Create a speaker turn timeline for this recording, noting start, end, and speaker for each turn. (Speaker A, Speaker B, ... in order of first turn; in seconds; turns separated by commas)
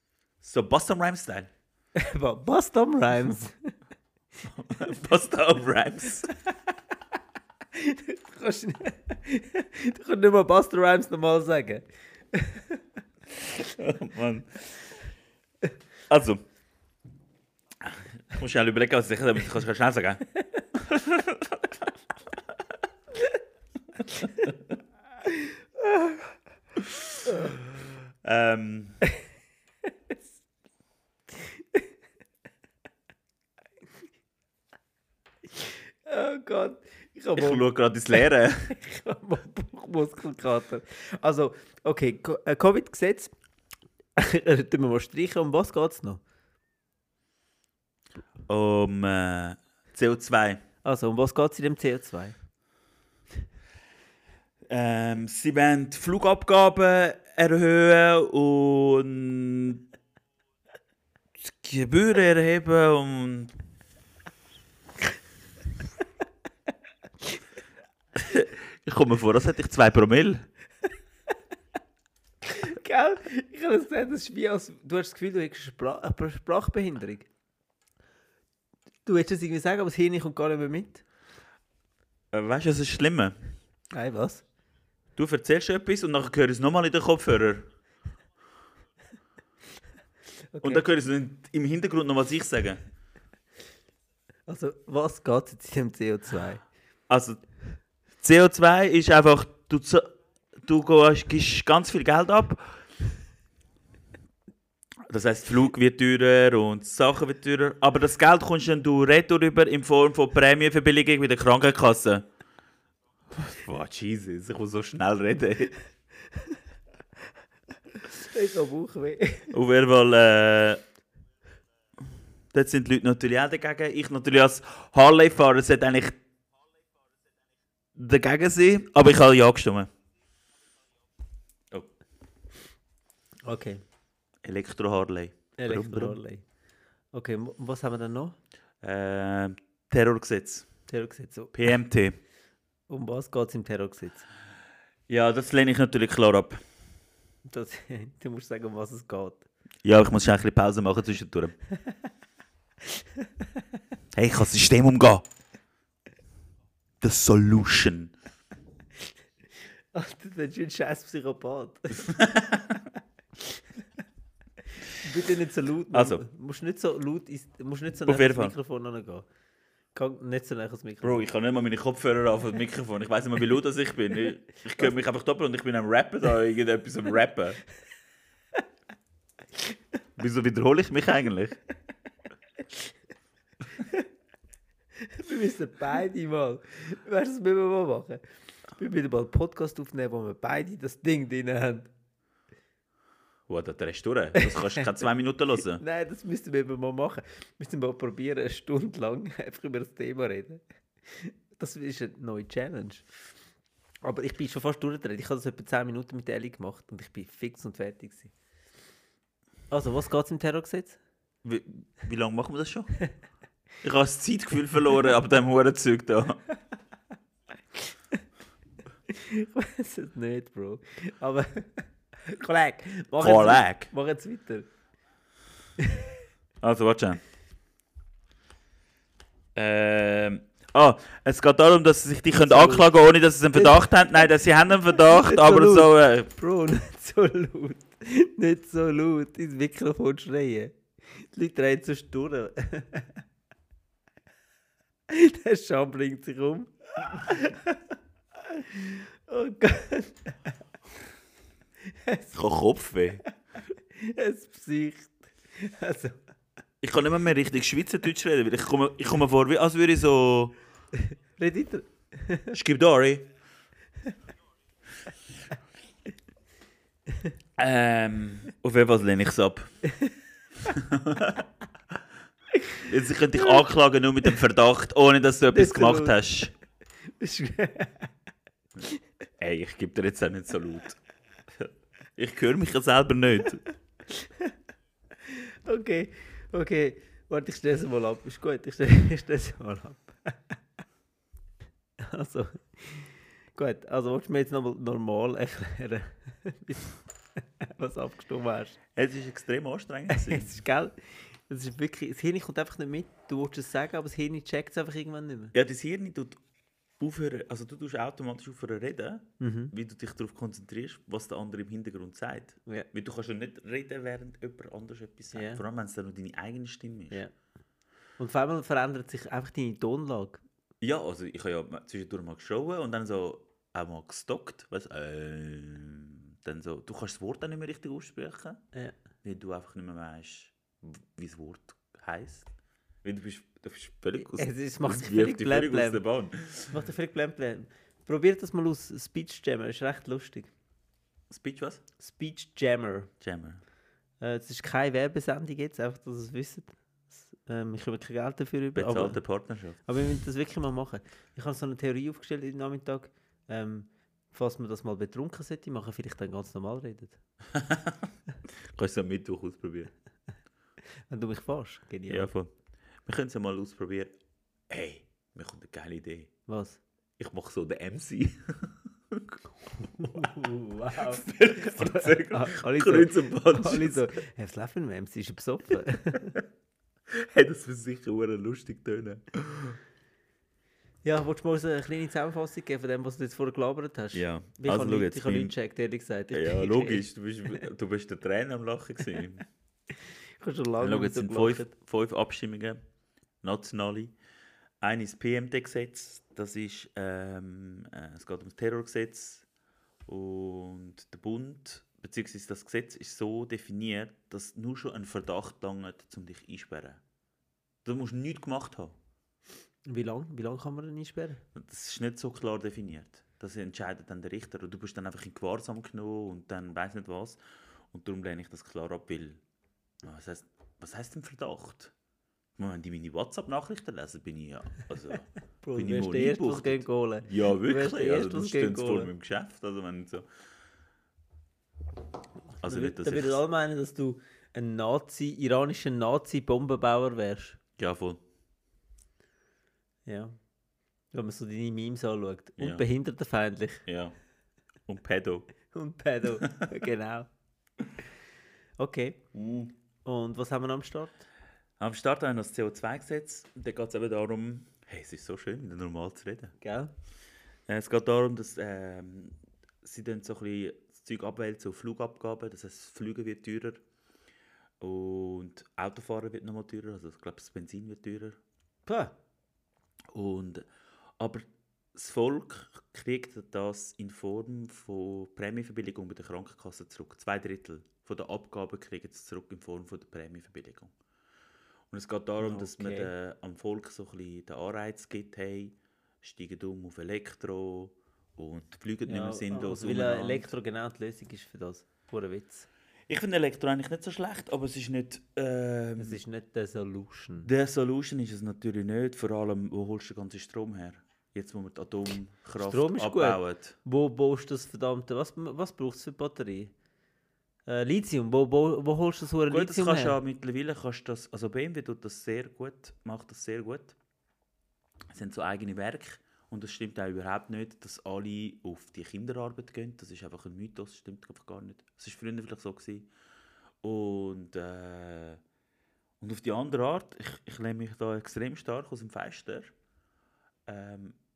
Speaker A: 0.4-1.5, Speaker B: 1.9-3.7, Speaker A: 4.4-6.3, Speaker B: 7.7-12.8, Speaker A: 13.5-14.7, Speaker A: 16.1-16.4, Speaker A: 17.8-21.9, Speaker A: 24.1-24.5, Speaker B: 25.2-26.2, Speaker A: 26.8-27.6, Speaker B: 27.3-27.5, Speaker A: 28.2-29.0, Speaker B: 35.5-37.6, Speaker A: 37.4-38.8, Speaker B: 38.7-43.3, Speaker B: 44.1-46.2, Speaker A: 48.5-50.6, Speaker B: 50.8-52.4, Speaker A: 54.7-59.8, Speaker A: 61.4-63.5, Speaker A: 68.2-70.5, Speaker B: 72.4-77.3, Speaker B: 79.0-81.0, Speaker A: 82.3-83.3, Speaker B: 83.9-84.4, Speaker A: 85.2-87.7, Speaker B: 90.5-90.8, Speaker A: 90.6-92.8, Speaker B: 94.5-96.6, Speaker A: 97.1-97.4, Speaker A: 98.2-102.8, Speaker A: 105.1-112.3, Speaker A: 113.3-115.8, Speaker B: 118.0-119.5, Speaker A: 119.5-120.8, Speaker A: 122.5-126.2, Speaker A: 127.9-129.9, Speaker B: 133.4-133.8, Speaker A: 134.4-136.2, Speaker B: 135.6-136.4, Speaker B: 137.1-138.4, Speaker A: 138.8-140.7, Speaker B: 140.9-141.5, Speaker A: 141.5-142.2, Speaker B: 142.9-144.2, Speaker A: 145.1-146.6, Speaker B: 147.4-149.4, Speaker A: 149.8-151.5, Speaker B: 151.7-152.0, Speaker B: 152.9-153.6, Speaker A: 154.1-155.2, Speaker A: 157.0-158.1, Speaker B: 159.9-162.2, Speaker A: 162.0-162.9, Speaker B: 164.9-169.2, Speaker A: 165.9-166.2, Speaker A: 168.1-168.5, Speaker B: 169.9-171.2, Speaker A: 171.0-177.6, Speaker A: 180.2-181.6, Speaker B: 183.8-184.1, Speaker B: 185.0-188.2, Speaker B: 188.8-191.9, Speaker A: 193.5-195.8, Speaker B: 194.4-194.8, Speaker B: 195.8-203.1, Speaker B: 204.0-208.3, Speaker B: 209.7-211.0, Speaker A: 211.4-212.9, Speaker A: 213.8-216.4, Speaker B: 219.1-224.7, Speaker A: 223.2-223.9, Speaker B: 225.8-226.2, Speaker A: 226.6-227.2, Speaker A: 229.5-236.3, Speaker B: 232.4-232.9, Speaker B: 233.5-234.2, Speaker B: 234.9-243.2, Speaker B: 245.1-247.8, Speaker B: 248.4-250.5, Speaker B: 251.8-252.3, Speaker A: 252.3-253.2, Speaker B: 253.8-256.2, Speaker A: 256.8-260.5, Speaker B: 261.0-262.6, Speaker A: 262.5-263.3, Speaker A: 267.6-269.7, Speaker B: 269.9-270.1, Speaker A: 270.6-271.4, Speaker B: 272.6-272.8, Speaker A: 272.8-276.5, Speaker B: 275.5-276.2, Speaker B: 277.2-278.1, Speaker A: 279.4-281.0, Speaker A: 281.5-283.6, Speaker B: 284.1-284.5, Speaker B: 285.2-290.5, Speaker B: 292.0-298.8, Speaker A: 298.9-300.6, Speaker B: 300.1-305.5, Speaker A: 305.5-306.4, Speaker A: 307.0-317.2, Speaker B: 309.4-309.7, Speaker B: 315.3-315.6, Speaker B: 318.2-320.4, Speaker A: 320.8-328.6, Speaker A: 329.2-332.5, Speaker A: 333.0-336.8, Speaker B: 334.2-336.0, Speaker B: 336.7-340.5, Speaker A: 341.3-341.8, Speaker B: 342.0-343.1, Speaker A: 343.2-343.6, Speaker B: 344.2-349.2, Speaker A: 348.7-349.8, Speaker B: 349.9-357.2, Speaker A: 357.5-359.9, Speaker B: 361.1-362.3, Speaker A: 362.1-362.5, Speaker A: 363.0-364.1, Speaker A: 364.7-366.3, Speaker B: 366.5-366.8, Speaker A: 367.2-374.1, Speaker B: 370.0-376.4, Speaker A: 377.1-379.8, Speaker B: 381.0-387.1, Speaker A: 384.1-385.5, Speaker A: 386.3-389.4, Speaker B: 390.0-391.7, Speaker A: 390.8-392.8, Speaker A: 393.4-394.1, Speaker A: 394.8-399.4, Speaker A: 400.1-407.0, Speaker A: 407.8-408.9, Speaker B: 409.9-411.4, Speaker A: 411.5-417.4, Speaker A: 417.9-419.4, Speaker A: 420.0-421.9, Speaker A: 422.6-430.3, Speaker B: 425.6-429.1, Speaker A: 432.6-433.4, Speaker B: 432.6-437.6, Speaker A: 437.8-438.2, Speaker B: 440.1-440.3, Speaker B: 441.1-443.8, Speaker A: 442.6-442.9, Speaker A: 443.9-444.1, Speaker A: 444.9-445.5, Speaker B: 445.7-447.3, Speaker B: 448.8-449.2, Speaker A: 449.3-449.7, Speaker B: 450.0-451.2, Speaker A: 451.8-456.5, Speaker B: 456.6-456.9, Speaker A: 457.7-463.8, Speaker A: 464.8-468.4, Speaker B: 468.9-469.1, Speaker A: 470.1-470.7, Speaker A: 471.2-480.9, Speaker A: 481.9-490.5, Speaker B: 482.4-483.1, Speaker B: 489.0-492.7, Speaker A: 493.1-496.2, Speaker B: 496.0-497.5, Speaker A: 497.4-503.8, Speaker B: 502.6-506.7, Speaker B: 507.7-510.2, Speaker A: 509.5-514.0, Speaker A: 515.1-523.1, Speaker A: 523.8-525.4, Speaker A: 526.2-529.7, Speaker A: 530.6-531.2